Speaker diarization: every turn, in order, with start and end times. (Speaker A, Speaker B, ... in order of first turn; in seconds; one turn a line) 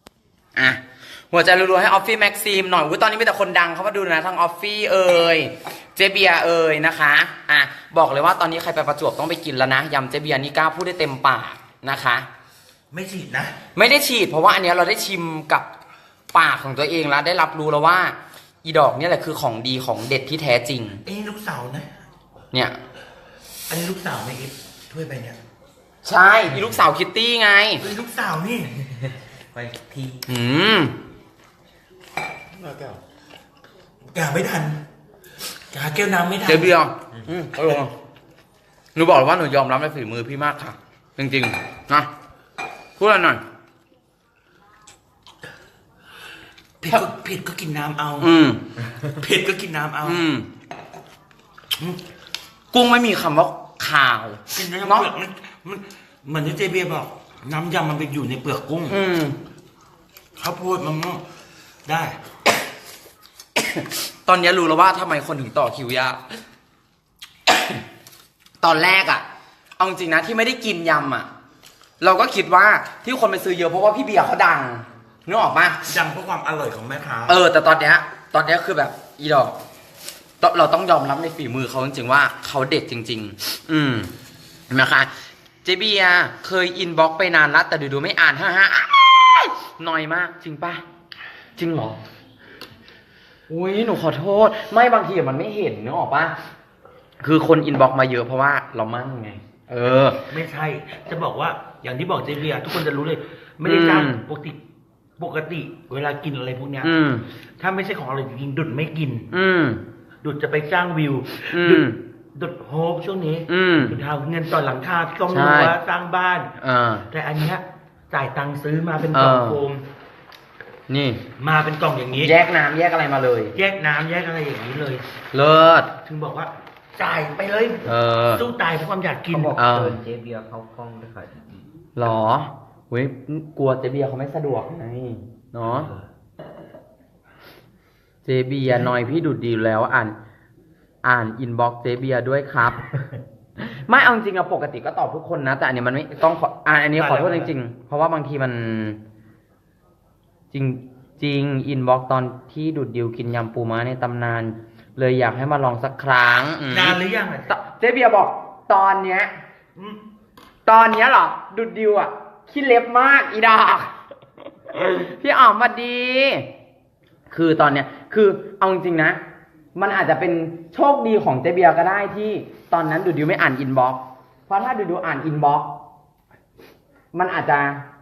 Speaker A: 0.6-12.3
Speaker B: 12.9-13.6
Speaker A: 13.8-15.7
Speaker A: 16.3-21.0
Speaker B: 21.1-21.9
Speaker B: 23.7-25.4
Speaker A: 26.1-27.8
Speaker B: 27.8-28.9
Speaker C: 29.0-30.2
Speaker A: 30.3-30.9
Speaker B: 32.6-33.0
Speaker B: 34.1-34.8
Speaker B: 35.7-36.7
Speaker A: 36.5-37.9
Speaker A: 39.0-42.1
Speaker A: 43.0-43.4
Speaker B: 46.8-48.3
Speaker A: 48.2-48.6
Speaker B: 49.0-50.2
Speaker A: 50.0-50.5
Speaker A: 52.7-55.1
Speaker B: 54.5-59.0
Speaker A: 58.9-59.4
Speaker B: 60.4-61.2
Speaker B: 61.9-62.2
Speaker A: 63.6-66.2
Speaker A: 68.6-69.2
Speaker A: 69.8-71.3
Speaker A: 72.0-75.8
Speaker B: 75.9-77.4
Speaker A: 77.3-79.6
Speaker A: 80.4-84.1
Speaker A: 84.7-85.1
Speaker A: 85.6-90.8
Speaker A: 91.6-92.0
Speaker A: 93.5-96.3
Speaker A: 97.2-100.2
Speaker B: 100.3-104.6
Speaker A: 103.7-104.2
Speaker B: 105.2-106.9
Speaker A: 106.8-107.2
Speaker B: 107.6-109.3
Speaker A: 109.3-109.8
Speaker B: 110.2-116.5
Speaker A: 111.5-112.0
Speaker A: 113.5-114.0
Speaker A: 115.3-115.7
Speaker A: 116.6-117.1
Speaker B: 117.1-119.8
Speaker A: 119.1-119.6
Speaker A: 120.9-121.2
Speaker B: 121.4-122.3
Speaker A: 122.2-123.5
Speaker B: 123.5-125.0
Speaker A: 125.3-125.9
Speaker B: 126.0-129.6
Speaker A: 127.9-128.5
Speaker C: 129.3-131.7
Speaker A: 129.6-130.0
Speaker A: 132.0-135.9
Speaker B: 135.7-136.0
Speaker A: 138.2-140.2
Speaker A: 141.0-142.9
Speaker A: 143.7-149.0
Speaker B: 147.0-147.5
Speaker A: 150.5-157.0
Speaker B: 156.7-157.5
Speaker A: 157.5-159.3
Speaker A: 160.7-163.9
Speaker A: 164.7-166.5
Speaker A: 167.3-169.2
Speaker A: 169.8-175.7
Speaker A: 177.1-177.8